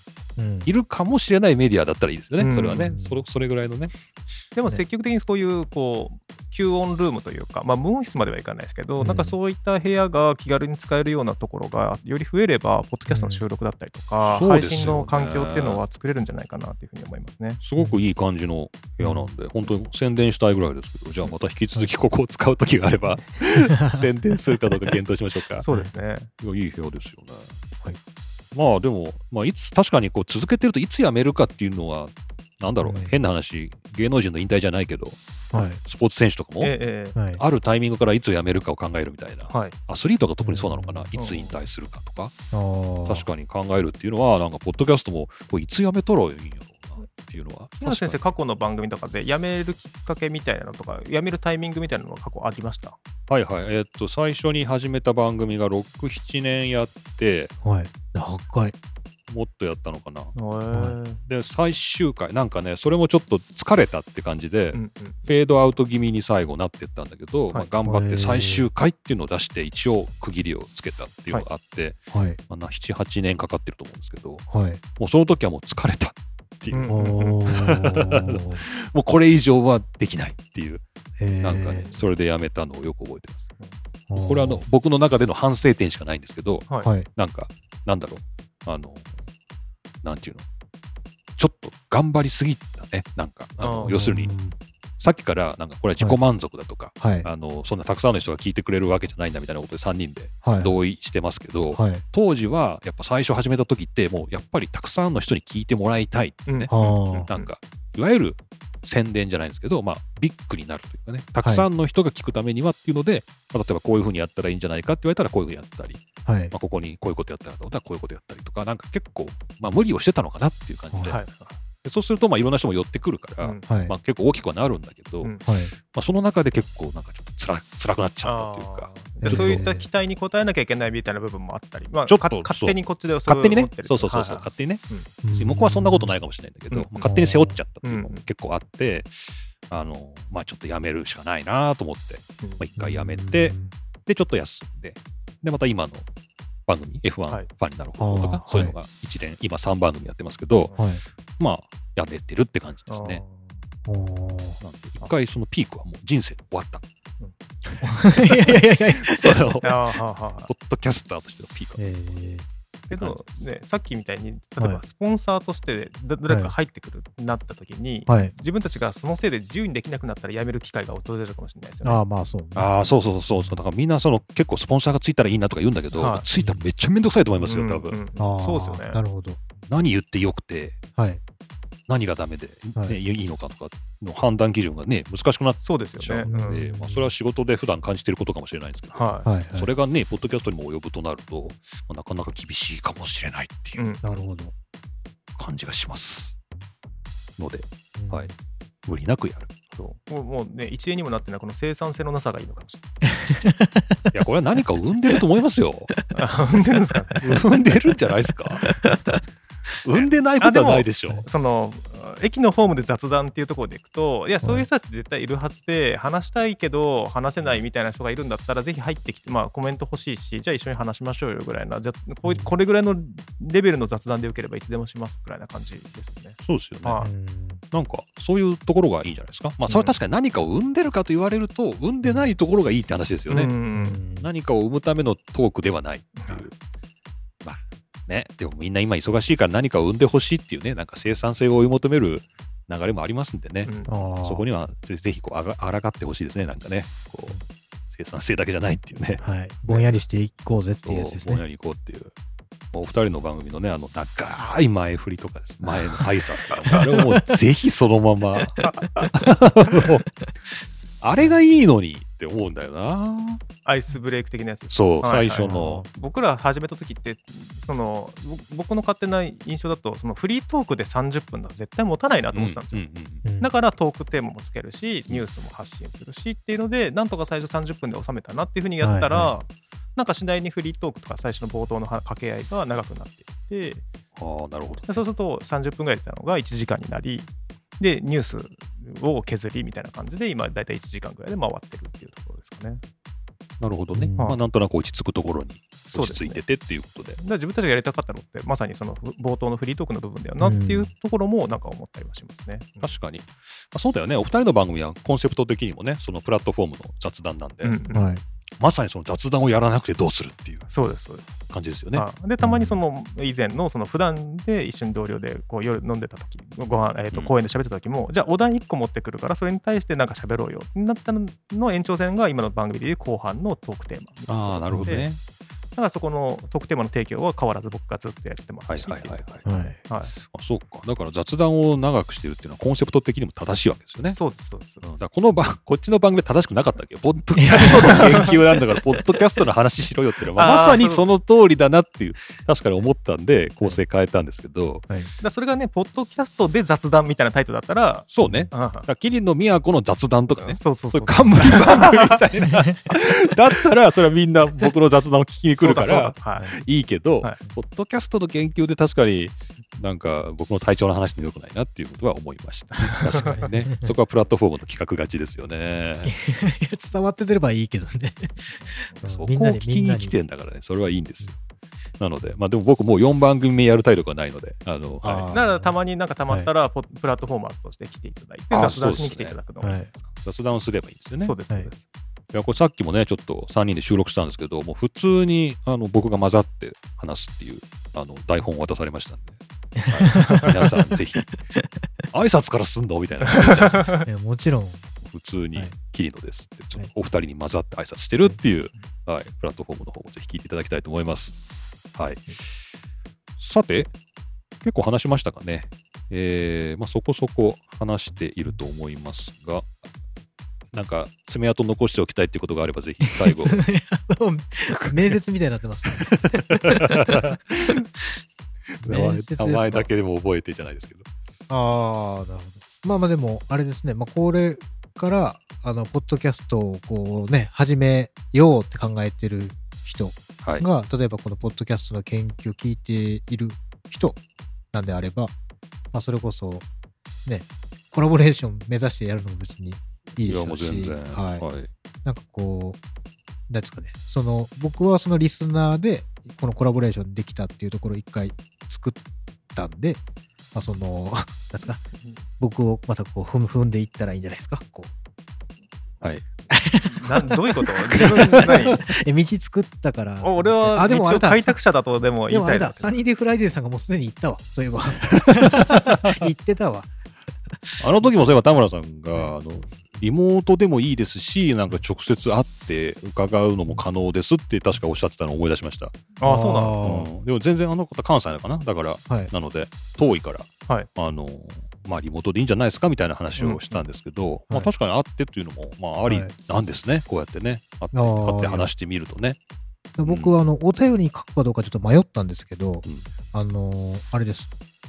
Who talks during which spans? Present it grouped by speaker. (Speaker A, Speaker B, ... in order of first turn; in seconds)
Speaker A: 0.4-0.7, 2.8-3.2, 9.0-9.4, 13.1-13.4, 19.0-19.3, 32.8-33.1, 35.5-35.8, 37.1-37.4, 40.4-41.1, 42.5-43.3, 57.6-58.8, 67.8-68.7, 72.1-72.4, 74.5-74.8, 76.9-78.6, 81.2-81.9, 84.1-84.6, 86.8-87.1, 93.8-94.6, 97.0-97.3, 100.4-100.7, 101.7-102.0, 106.7-107.3, 111.4-111.7, 116.2-116.5, 120.9-121.2, 123.7-124.0, 125.5-125.7, 129.2-129.9, 135.2-136.1, 137.0-137.6, 142.8-143.7, 148.0-148.8, 150.8-151.0, 153.9-154.6, 157.8-159.6, 161.8-162.5, 168.1-168.3, 171.8-172.7, 178.2-179.4, 181.0-181.2, 186.3-187.1, 189.3-189.7, 194.0-194.5, 198.0-198.3, 203.2-204.1, 222.2-222.5, 227.0-227.6, 232.0-232.3, 233.7-234.3, 243.9-244.5, 249.2-251.4, 255.6-256.1, 256.7-257.0, 265.4-265.9, 273.2-273.5, 278.8-279.3, 293.9-294.2, 300.4-300.9, 307.9-308.2, 312.4-312.8, 324.7-325.0, 329.4-329.8, 337.4-338.2, 348.2-348.5, 363.3-363.9, 366.1-370.1, 375.0-375.7, 379.6-379.9, 389.8-390.7, 394.1-394.8, 413.1-417.7, 418.8-419.9, 421.5-434.2, 434.7-435.3, 435.9-436.6, 437.2-441.4, 442.1-442.8, 443.5-449.0, 449.5-450.0, 450.5-451.8, 452.4-454.9, 456.5-457.4, 457.9-461.6, 462.3-466.9, 467.6-468.1, 476.2-477.1, 486.1-486.3, 487.9-488.7, 490.0-494.5
Speaker B: 0.7-3.9, 14.2-15.8, 17.6-25.6, 26.4-27.5, 28.5-35.2, 35.8-36.8, 37.4-42.4, 43.1-48.3, 53.3-57.5, 59.3-60.4, 61.2-74.5, 75.0-80.8, 81.4-83.5, 84.2-89.1, 90.0-90.5, 91.4-94.3, 95.0-121.2, 121.8-129.7, 132.1-139.2, 139.7-146.1, 146.7-150.7, 151.4-153.2, 154.6-156.8, 158.3-159.9, 160.5-161.8, 162.9-163.5, 172.6-178.0, 179.7-180.8, 181.9-193.8, 195.4-196.4, 197.4-198.3, 198.9-199.5, 204.1-205.9, 207.2-208.7, 209.8-211.2, 226.4-227.0, 227.7-233.5, 234.2-236.5, 237.4-243.7, 244.2-247.4, 247.9-249.2, 250.8-252.1, 252.7-260.1, 261.0-263.4, 264.7-265.8, 272.3-273.2, 284.2-285.0, 293.6-297.2, 302.8-307.8, 308.6-310.7, 311.5-312.1, 324.3-325.2, 328.7-329.4, 330.2-334.2, 334.8-344.9, 348.1-366.1, 369.0-371.4, 372.0-375.3, 378.5-379.4, 380.2-381.4, 382.3-391.4, 392.1-394.0, 395.0-401.4, 401.9-402.4, 403.4-403.9, 404.6-409.7, 410.7-413.7, 414.7-415.2, 415.9-417.8, 418.8-421.1, 440.2-441.7, 465.1-466.2, 467.8-475.9, 476.8-489.4, 490.0-490.3
Speaker C: 2.4-2.9, 4.5-17.6, 25.6-26.3, 36.6-37.2, 39.5-39.8, 41.1-41.5, 47.8-53.0, 60.4-61.2, 64.7-65.2, 76.7-77.4, 93.6-94.1, 106.5-107.5, 121.1-121.6, 128.2-135.1, 136.7-137.1, 137.8-138.2, 152.9-153.6, 159.6-160.5, 162.9-172.0, 175.9-176.2, 177.4-179.0, 185.6-186.6, 188.9-189.3, 193.8-194.0, 199.8-202.9, 206.1-207.3, 209.9-227.1, 229.7-229.9, 233.3-234.0, 236.2-236.5, 243.7-244.0, 258.6-259.1, 263.6-272.8, 273.4-283.8, 284.9-292.8, 295.9-296.4, 297.1-303.0, 307.6-308.1, 310.7-311.4, 311.9-325.1, 325.8-330.1, 334.1-335.0, 340.4-341.1, 345.2-348.9, 350.4-352.1, 355.5-356.5, 363.1-363.4, 368.6-369.0, 375.3-380.1, 381.2-381.8, 390.2-390.5, 393.4-394.1, 452.0-452.2, 456.9-458.9, 460.2-462.9, 476.2-477.0